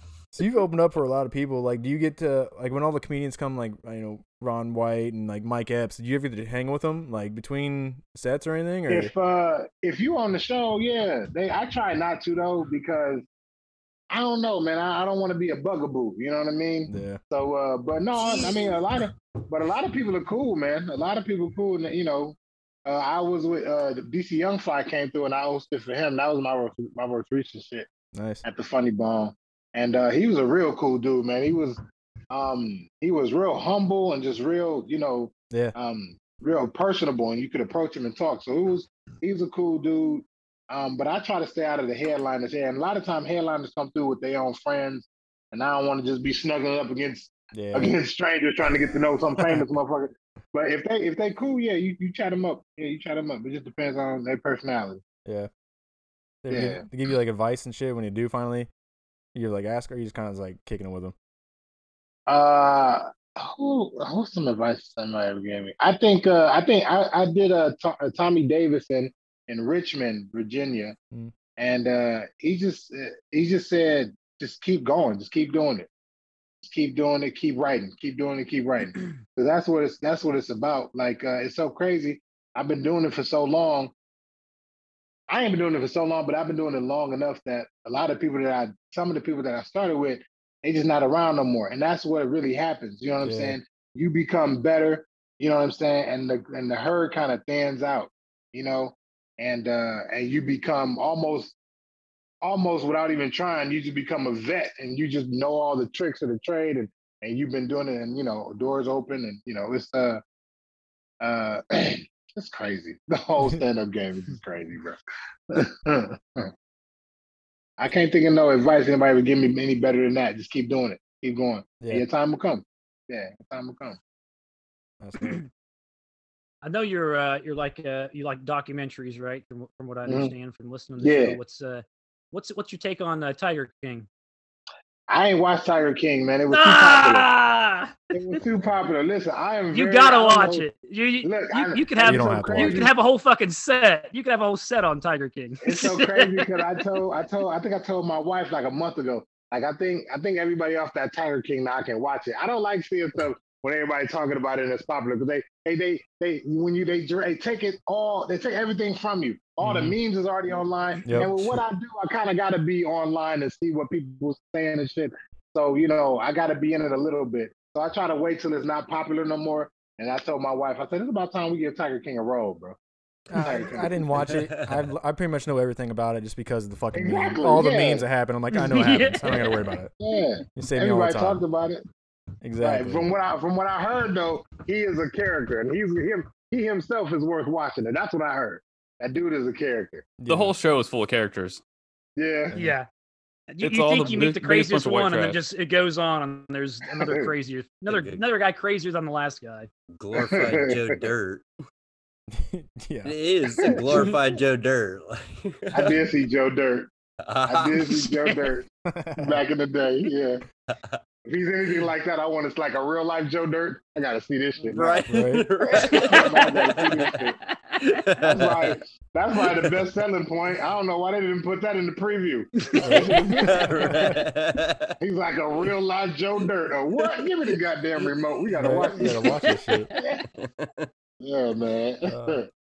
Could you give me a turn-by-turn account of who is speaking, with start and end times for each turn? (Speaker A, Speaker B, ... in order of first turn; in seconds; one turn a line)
Speaker A: 0.3-9.1
Speaker B: 8.9-13.2
Speaker B: 14.1-27.9
Speaker A: 16.9-17.2
Speaker C: 18.4-18.7
Speaker A: 28.1-28.4
Speaker B: 28.4-31.8
Speaker B: 32.3-55.0
Speaker A: 47.5-47.9
Speaker A: 49.4-49.6
Speaker A: 56.4-58.7
Speaker B: 56.5-56.8
Speaker A: 59.4-61.1
Speaker B: 62.3-70.9
Speaker B: 71.6-75.9
Speaker B: 76.6-83.9
Speaker B: 85.3-101.6
Speaker A: 93.2-93.6
Speaker B: 102.4-110.2
Speaker B: 111.2-115.0
Speaker B: 115.5-116.5
Speaker B: 117.8-124.0
Speaker A: 125.0-125.4
Speaker C: 126.6-134.1
Speaker B: 130.1-130.3
Speaker B: 131.0-131.4
Speaker B: 135.1-137.3
Speaker C: 136.5-138.4
Speaker B: 138.1-140.7
Speaker C: 139.7-146.8
Speaker B: 141.2-142.9
Speaker A: 142.0-142.8
Speaker B: 145.6-172.8
Speaker A: 159.6-159.9
Speaker A: 161.1-161.6
Speaker A: 173.3-179.9
Speaker B: 173.3-174.2
Speaker D: 174.2-174.6
Speaker B: 176.9-178.1
Speaker C: 178.5-179.8
Speaker B: 180.0-181.8
Speaker A: 180.6-181.4
Speaker A: 182.4-183.1
Speaker B: 182.6-190.1
Speaker A: 190.2-190.5
Speaker E: 190.3-191.6
Speaker B: 192.2-192.6
Speaker C: 192.5-192.9
Speaker C: 193.5-199.7
Speaker E: 193.6-195.4
Speaker D: 197.9-198.2
Speaker D: 199.9-201.4
Speaker B: 200.2-200.7
Speaker A: 202.3-203.1
Speaker D: 203.0-206.0
Speaker B: 203.7-204.1
Speaker B: 205.7-206.9
Speaker D: 207.2-208.4
Speaker B: 207.4-208.7
Speaker A: 208.9-209.4
Speaker B: 209.2-210.4
Speaker D: 210.7-211.0
Speaker B: 211.2-215.0
Speaker D: 214.6-217.2
Speaker A: 215.1-215.4
Speaker B: 215.6-217.4
Speaker C: 215.9-218.0
Speaker D: 217.9-218.8
Speaker B: 218.2-224.0
Speaker C: 222.6-223.1
Speaker D: 222.8-224.9
Speaker A: 222.8-224.2
Speaker B: 225.0-229.1
Speaker A: 228.6-229.9
Speaker C: 229.1-229.9
Speaker B: 229.9-230.2
Speaker D: 230.4-230.9
Speaker B: 231.2-232.4
Speaker A: 232.1-232.4